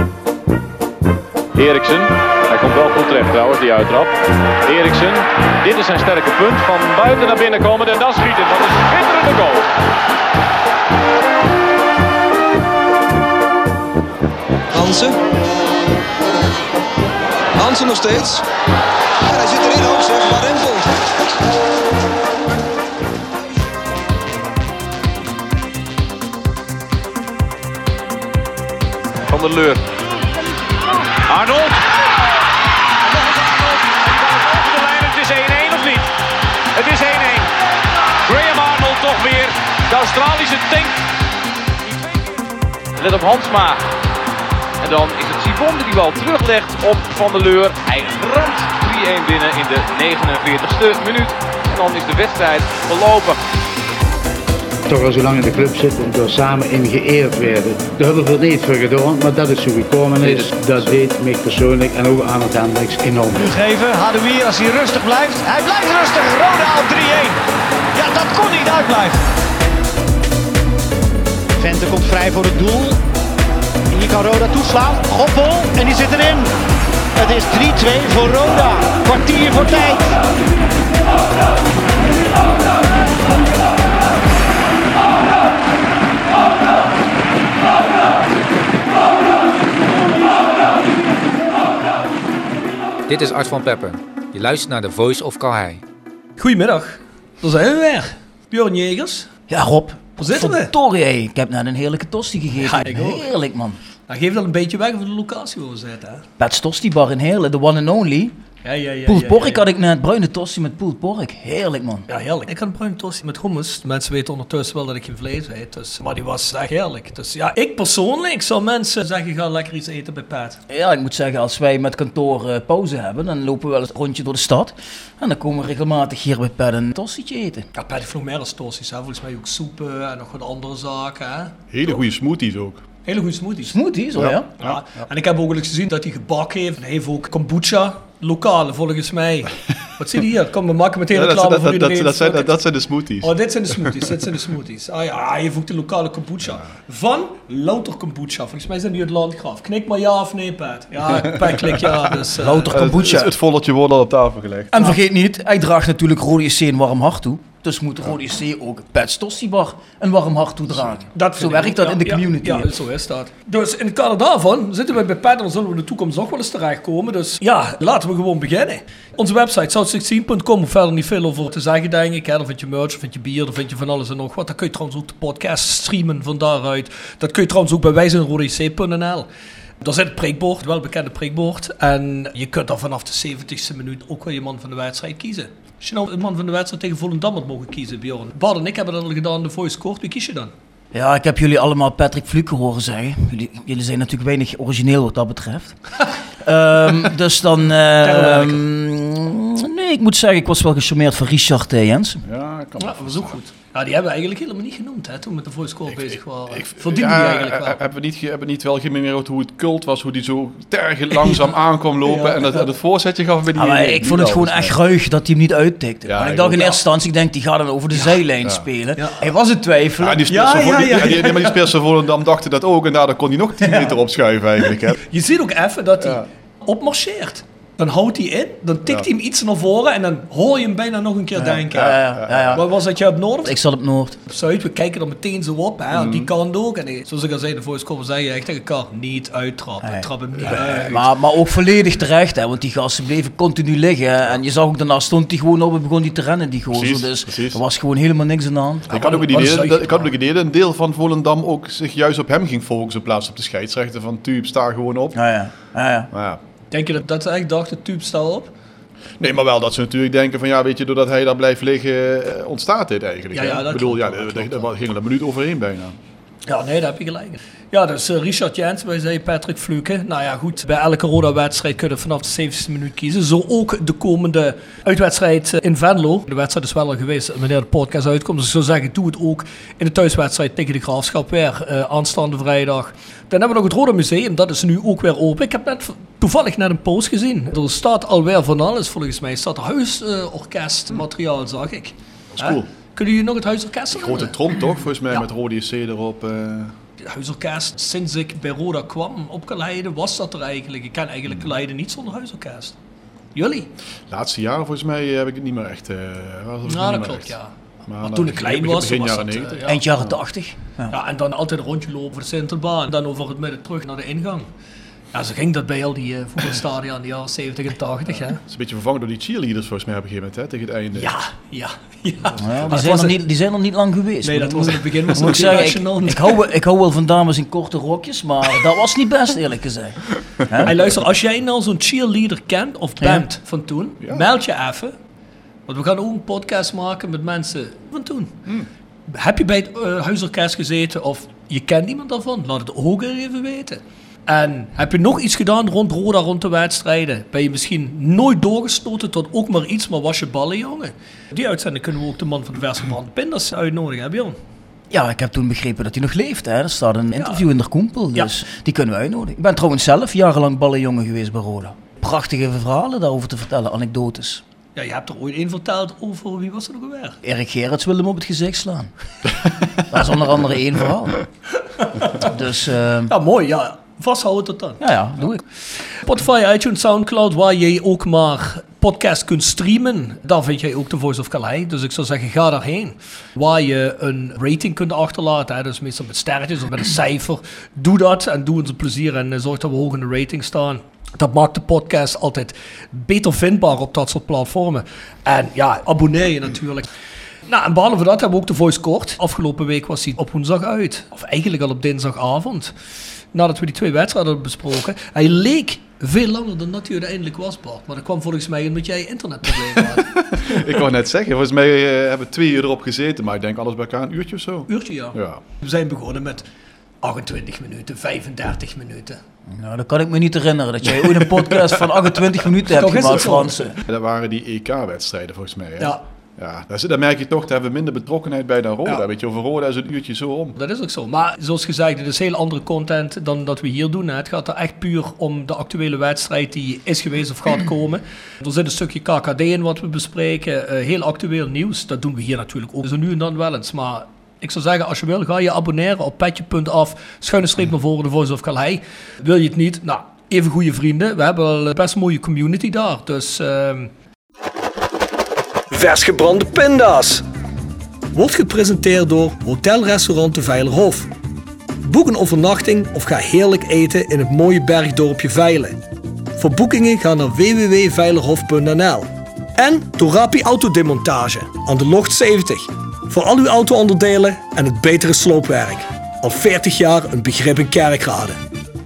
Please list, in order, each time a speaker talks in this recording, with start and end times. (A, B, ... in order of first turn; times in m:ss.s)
0:01.5-0:09.7 A
0:14.7-0:15.2 B
0:17.6-0:18.4 B
0:19.3-0:20.9 B
0:29.3-0:29.8 A
0:31.2-0:32.1 A
0:33.0-0:36.1 A
0:36.7-0:37.5 A
0:38.2-0:41.0 A
0:41.9-0:42.3 A
0:43.0-0:43.8 A
0:44.8-0:53.4 A
0:54.9-1:03.4 C
1:03.4-1:07.4 D
1:07.9-1:09.2 D
1:11.6-1:13.0 D
1:13.9-1:16.5 D
1:17.2-1:20.2 D
1:33.1-1:35.8 E
1:36.4-1:39.3 F
1:39.5-1:43.8 G
1:40.2-1:40.7 F
1:42.6-1:43.3 F
1:44.1-1:46.2 F
1:46.4-1:48.4 G
1:48.6-1:49.6 F
1:49.1-1:52.1 G
1:52.1-2:00.6 F
2:00.7-2:07.7 G
2:07.8-2:12.0 F
2:11.7-2:12.8 H
2:13.1-2:13.8 F
2:13.7-2:14.5 G
2:14.2-2:15.1 H
2:14.6-2:22.6 F
2:21.1-2:23.3 H
2:23.2-2:32.8 F
2:31.1-2:32.1 H
2:32.4-2:33.3 G
2:32.7-2:34.8 H
2:34.7-2:42.7 G
2:41.2-2:59.3 F
2:59.8-3:10.5 F
3:10.9-3:22.2 G
3:18.0-3:18.6 F
3:22.2-3:23.4 H
3:22.8-3:27.8 F
3:25.9-3:34.8 H
3:32.1-3:32.6 F
3:33.5-3:40.3 G
3:36.1-3:36.6 H
3:40.0-3:45.0 H
3:40.3-3:41.7 F
3:43.6-3:43.9 G
3:45.0-3:53.6 F
3:46.0-3:46.3 H
3:51.4-3:52.6 G
3:51.8-3:52.6 H
3:53.4-3:54.2 G
3:54.3-4:01.1 F
3:55.9-3:56.3 H
3:59.8-4:09.1 G
4:00.4-4:00.8 H
4:06.7-4:07.6 H
4:08.9-4:15.2 H
4:08.9-4:10.1 F
4:15.1-4:16.1 G
4:16.1-4:16.4 H
4:16.7-4:18.5 F
4:19.2-4:26.0 H
4:23.3-4:24.6 F
4:26.5-4:54.4 F
4:52.3-4:52.7 H
4:53.9-4:56.8 H
4:57.0-5:02.8 F
5:03.4-5:03.7 F
5:04.1-5:07.4 H
5:06.7-5:07.5 F
5:07.9-5:10.1 H
5:08.0-5:09.8 F
5:09.7-5:11.0 G
5:10.9-5:14.5 F
5:15.1-5:18.4 F
5:18.4-5:21.1 H
5:21.0-5:23.2 F
5:22.4-5:30.7 G
5:22.4-5:22.8 H
5:24.2-5:26.4 F
5:30.6-5:34.9 F
5:33.0-5:33.2 G
5:34.0-5:34.3 H
5:35.7-5:38.3 F
5:39.1-5:54.4 F
5:54.9-6:04.4 G
5:57.2-5:57.4 F
6:04.8-6:07.2 F
6:07.2-6:08.9 G
6:09.9-6:11.2 G
6:11.8-6:12.3 F
6:12.2-6:13.1 G
6:13.1-6:14.8 F
6:14.8-6:15.4 G
6:15.9-6:36.9 F
6:37.5-6:42.7 F
6:43.3-6:50.6 F
6:50.2-6:55.4 H
6:54.7-6:56.4 F
6:57.0-6:59.2 F
6:59.5-7:03.8 G
7:02.7-7:03.8 F
7:03.8-7:10.6 H
7:10.6-7:33.9 F
7:35.7-7:37.2 F
7:38.1-7:41.1 F
7:41.8-7:45.8 F
7:46.4-7:58.4 F